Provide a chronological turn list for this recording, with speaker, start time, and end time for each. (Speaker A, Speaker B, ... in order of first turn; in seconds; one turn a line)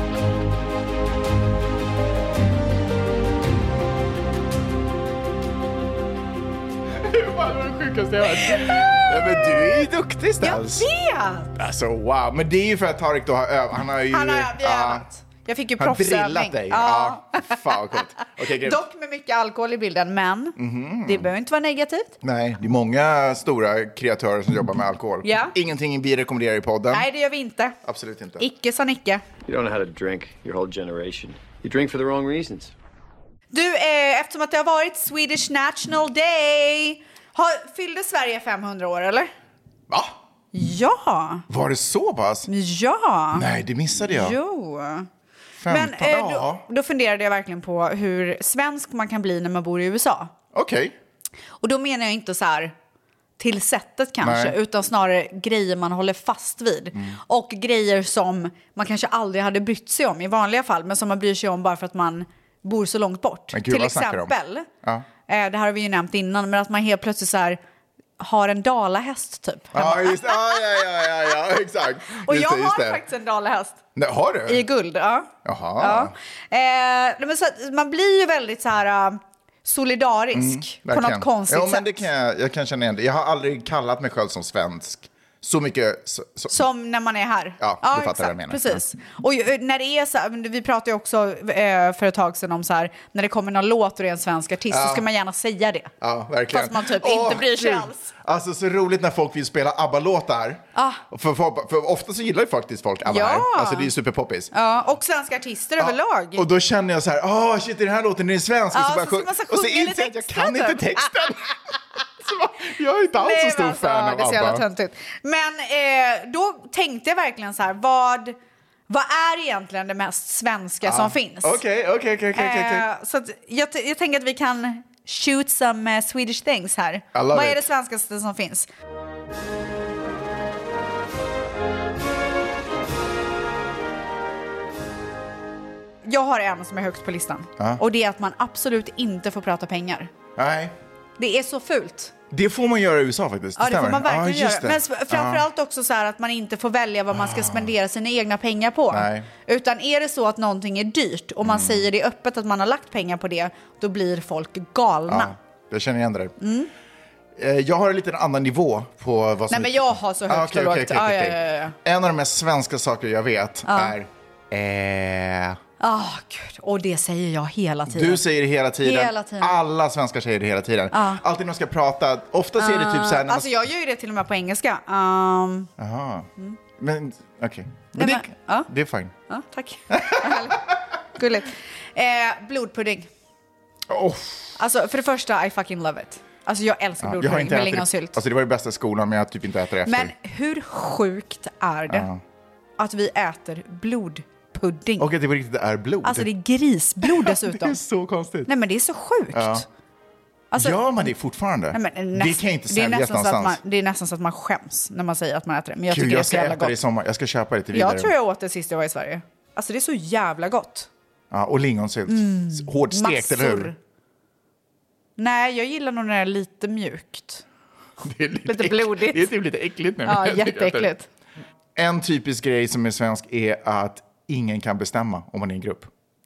Speaker A: 6.9-10.9
Speaker B: 8.3-9.5
Speaker B: 10.4-11.5
Speaker A: 11.6-15.1
Speaker B: 14.1-17.8
Speaker A: 15.8-18.8
Speaker B: 18.5-22.1
Speaker A: 20.6-21.3
Speaker A: 22.2-27.1
Speaker B: 25.2-25.5
Speaker B: 26.9-27.8
Speaker A: 27.8-28.4
Speaker B: 28.4-29.2
Speaker C: 29.4-32.7
Speaker B: 33.5-39.3
Speaker A: 39.9-40.1
Speaker B: 40.5-41.4
Speaker A: 41.5-42.5
Speaker B: 42.5-45.1
Speaker A: 43.3-44.4
Speaker A: 45.6-46.6
Speaker B: 45.7-50.3
Speaker A: 50.5-50.9
Speaker B: 51.6-52.7
Speaker B: 53.4-64.7
Speaker A: 54.2-54.6
Speaker A: 63.5-65.0
Speaker B: 65.3-67.6
Speaker B: 68.2-70.6
Speaker A: 69.7-73.0
Speaker B: 72.2-73.8
Speaker A: 73.9-74.6
Speaker B: 74.5-82.0
Speaker A: 75.4-76.1
Speaker A: 80.3-86.6
Speaker B: 86.5-95.9
Speaker A: 87.6-88.8
Speaker A: 94.7-95.1
Speaker A: 96.0-104.5
Speaker B: 96.5-98.1
Speaker B: 100.7-101.0
Speaker B: 103.0-103.9
Speaker B: 104.5-106.4
Speaker A: 105.8-114.6
Speaker B: 108.7-111.1
Speaker B: 113.2-118.3
Speaker B: 118.9-121.6
Speaker A: 120.8-122.8
Speaker B: 122.3-128.7
Speaker A: 127.1-127.7
Speaker B: 136.0-140.1
Speaker A: 140.3-140.7
Speaker B: 141.2-142.1
Speaker A: 142.3-145.5
Speaker B: 143.6-155.3
Speaker A: 147.1-147.7
Speaker A: 148.9-149.3
Speaker A: 151.4-151.8
Speaker A: 155.1-156.3
Speaker B: 156.4-156.7
Speaker A: 157.3-165.6
Speaker B: 159.5-161.8
Speaker B: 163.7-163.9
Speaker B: 165.8-168.2
Speaker A: 167.9-173.6
Speaker B: 168.8-169.6
Speaker B: 170.9-171.2
Speaker B: 172.6-175.7
Speaker A: 175.8-179.1
Speaker B: 177.9-178.7
Speaker B: 179.3-180.6
Speaker A: 179.9-180.6
Speaker B: 181.1-183.1
Speaker A: 183.9-184.5
Speaker B: 184.6-188.2
Speaker A: 187.0-190.1
Speaker B: 189.8-192.1
Speaker A: 191.9-192.2
Speaker B: 192.8-195.1
Speaker A: 195.0-196.3
Speaker B: 196.0-197.8
Speaker A: 197.0-198.5
Speaker B: 198.5-199.7
Speaker A: 199.3-199.7
Speaker B: 200.5-200.8
Speaker A: 200.6-203.6
Speaker B: 201.7-206.7
Speaker A: 205.9-208.1
Speaker B: 207.7-210.9
Speaker A: 211.3-213.7
Speaker B: 212.1-213.8
Speaker B: 215.2-217.4
Speaker A: 218.0-220.9
Speaker B: 218.4-219.3
Speaker B: 220.0-221.1
Speaker A: 221.7-225.9